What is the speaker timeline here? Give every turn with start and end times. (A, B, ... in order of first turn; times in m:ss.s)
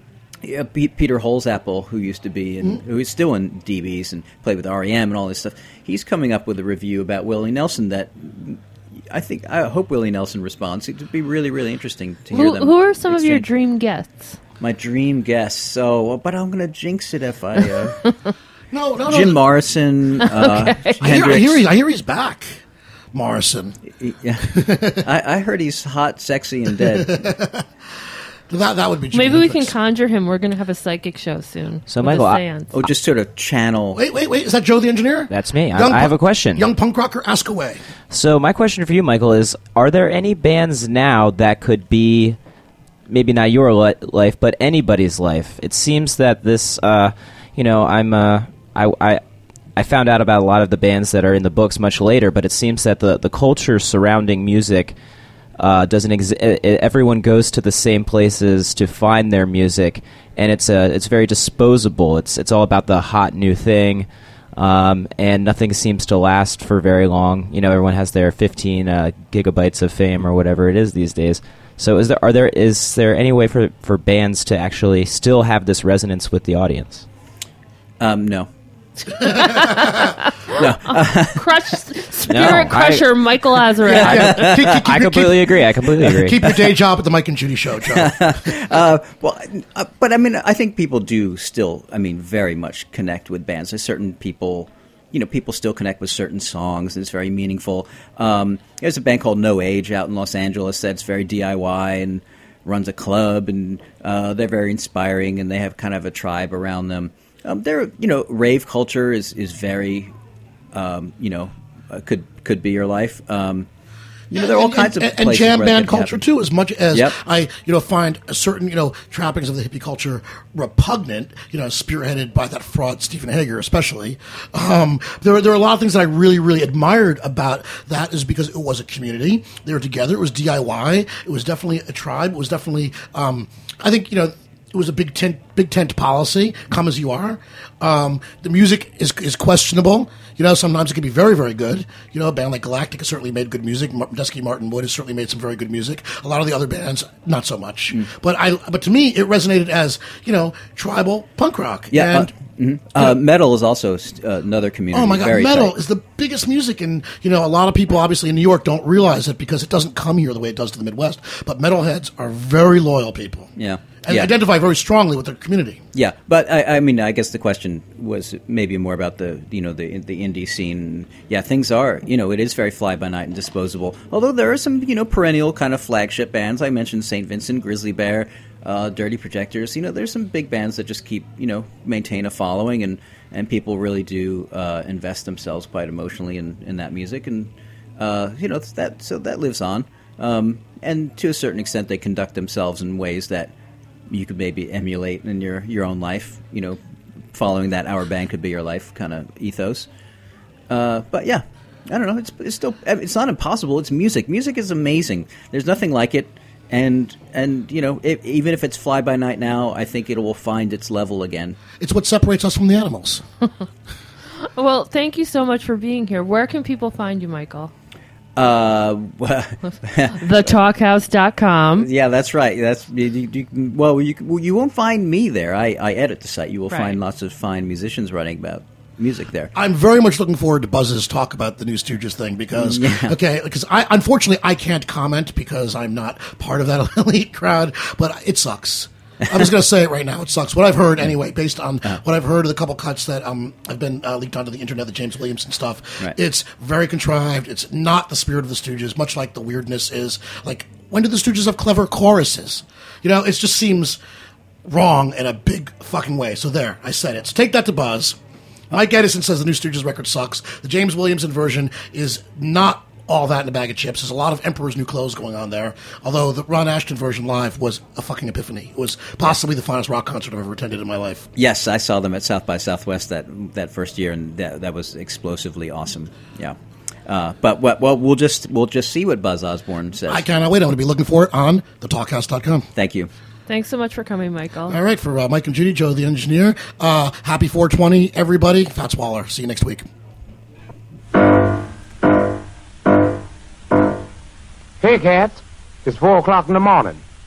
0:00.4-0:13.5 A
0:12.3-0:14.4 B
0:14.6-0:18.0 A
0:18.7-0:19.4 C
0:19.1-0:21.6 A
0:20.4-0:21.0 B
0:21.0-0:22.6 C
0:23.1-0:23.8 C
0:24.0-0:27.3 A
0:24.5-0:25.0 C
0:26.8-0:27.7 C
0:28.5-0:29.8 C
0:29.1-0:32.7 B
0:31.9-0:32.4 D
0:32.7-0:34.0 A
0:34.0-0:37.8 C
0:35.3-0:36.7 D
0:38.1-0:42.4 D
0:43.1-0:49.2 D
0:49.8-0:55.0 D
0:55.6-1:17.1 D
1:18.0-1:18.5 A
1:19.3-1:24.5 B
1:19.5-1:19.8 C
1:20.5-1:21.4 A
1:22.3-1:23.1 D
1:23.9-1:28.8 C
1:23.9-1:24.8 A
1:24.8-1:26.4 D
1:27.9-1:50.1 A
1:50.7-1:53.7 A
1:54.3-1:56.2 A
1:54.3-2:32.3 C
1:56.9-1:57.2 A
2:31.9-2:35.7 A
2:34.9-2:43.5 C
2:43.6-2:44.3 A
2:44.0-2:45.8 C
2:45.9-3:13.5 A
3:14.1-3:16.8 A
3:17.3-3:19.9 A
3:20.7-3:31.6 A
3:31.8-3:33.2 C
3:34.6-3:37.7 B
3:38.4-3:40.5 A
3:40.1-3:41.9 B
3:41.8-3:49.5 A
3:46.7-3:47.0 B
3:49.6-4:14.0 C
3:52.6-3:53.2 A
4:14.6-4:18.2 C
4:18.7-4:31.3 C
4:31.4-4:40.3 A
4:40.1-4:42.7 C
4:42.8-4:43.1 A
4:43.5-4:44.8 B
4:44.7-4:49.8 C
4:54.8-4:57.0 E